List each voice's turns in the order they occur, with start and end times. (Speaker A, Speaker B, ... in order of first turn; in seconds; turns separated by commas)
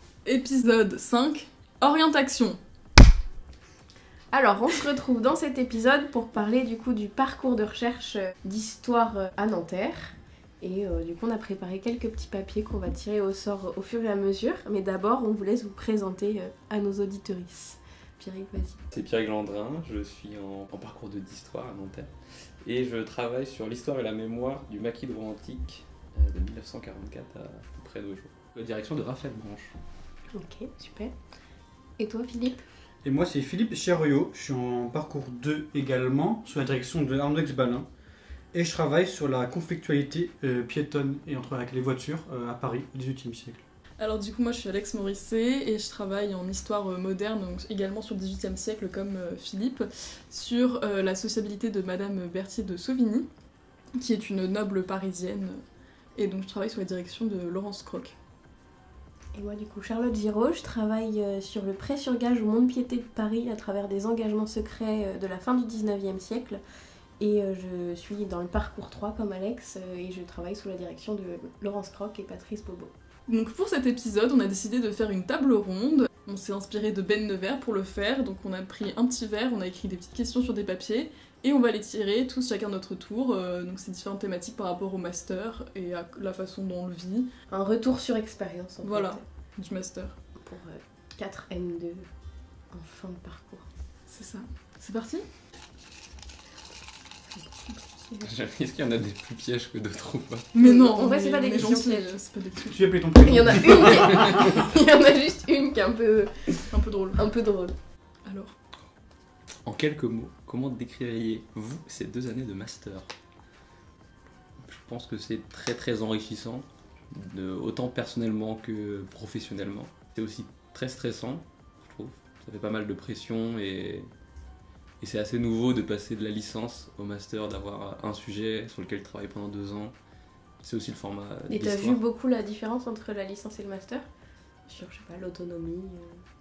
Speaker A: 0.2-2.6, Speaker B: 4.3-18.8, Speaker C: 18.9-29.7, Speaker B: 30.3-31.1, Speaker B: 32.0-32.6, Speaker D: 33.0-37.9, Speaker D: 38.5-43.6, Speaker A: 44.0-53.3, Speaker A: 53.9-55.6, Speaker A: 56.1-58.1, Speaker B: 59.3-66.6, Speaker B: 67.2-72.9, Speaker A: 73.3-87.3, Speaker B: 87.5-89.2, Speaker A: 88.8-90.2, Speaker B: 90.4-92.1, Speaker B: 92.7-93.7, Speaker A: 94.1-95.2, Speaker B: 97.4-98.3, Speaker C: 98.2-100.5, Speaker A: 100.5-102.9, Speaker B: 100.6-102.1, Speaker D: 102.7-104.7, Speaker B: 103.2-107.7, Speaker C: 104.0-104.4, Speaker A: 106.7-107.2, Speaker A: 108.2-108.5, Speaker C: 109.6-113.1, Speaker C: 114.6-124.1, Speaker C: 125.0-129.9, Speaker C: 130.6-132.0, Speaker B: 131.5-134.1, Speaker B: 134.7-136.2